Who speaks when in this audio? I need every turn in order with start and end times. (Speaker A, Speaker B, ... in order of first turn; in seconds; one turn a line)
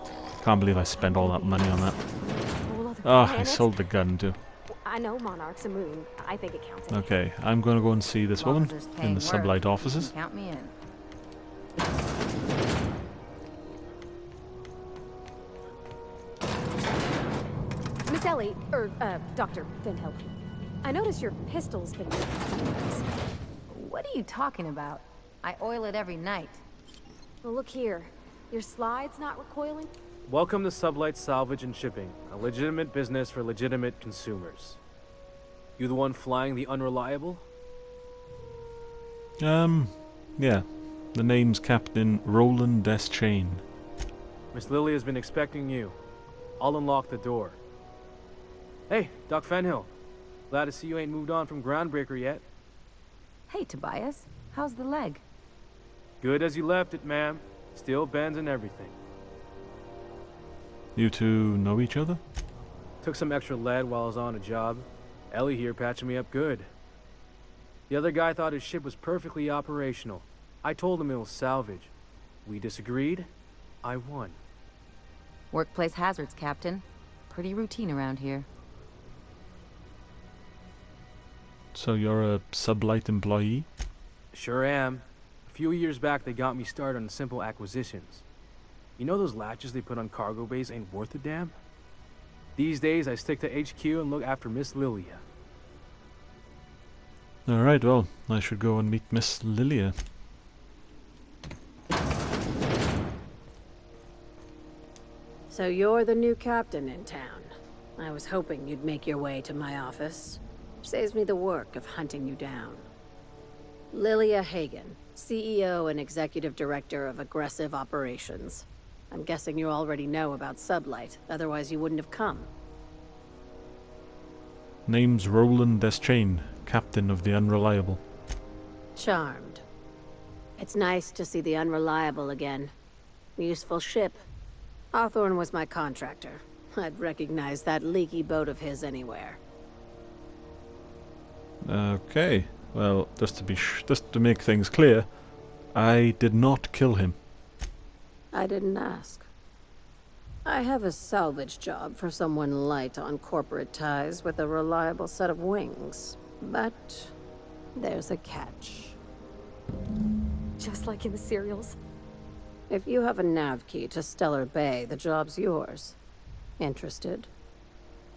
Speaker A: 0.4-1.9
Speaker B: 1.0-3.7
Speaker A: 3.0-4.4
Speaker B: 4.7-7.1
Speaker A: 6.9-10.1
Speaker C: 8.4-10.7
Speaker B: 18.1-20.3
Speaker B: 20.8-23.0
Speaker C: 23.7-26.6
Speaker B: 27.4-29.9
Speaker D: 30.2-34.8
Speaker D: 35.8-37.4
Speaker A: 39.4-43.6
Speaker D: 44.5-46.0
Speaker D: 46.6-47.6
Speaker D: 48.9-49.9
Speaker D: 50.5-52.4
Speaker C: 53.5-55.2
Speaker D: 56.2-59.0
Speaker A: 60.9-62.2
Speaker D: 63.0-66.7
Speaker D: 67.9-71.9
Speaker D: 72.4-73.3
Speaker D: 73.8-74.4
Speaker C: 75.5-78.5
Speaker A: 81.7-83.7
Speaker D: 84.3-88.2
Speaker D: 89.0-91.5
Speaker D: 92.5-95.2
Speaker A: 97.5-100.0
Speaker E: 105.5-112.8
Speaker E: 113.9-122.5
Speaker A: 124.8-128.0
Speaker E: 128.9-129.6
Speaker E: 130.6-132.7
Speaker E: 133.3-134.2
Speaker E: 134.9-139.4
Speaker A: 141.6-147.2
Speaker E: 148.3-149.3
Speaker E: 150.4-157.1
Speaker E: 157.7-159.0
Speaker B: 160.6-161.8
Speaker E: 162.7-165.9
Speaker E: 166.6-167.3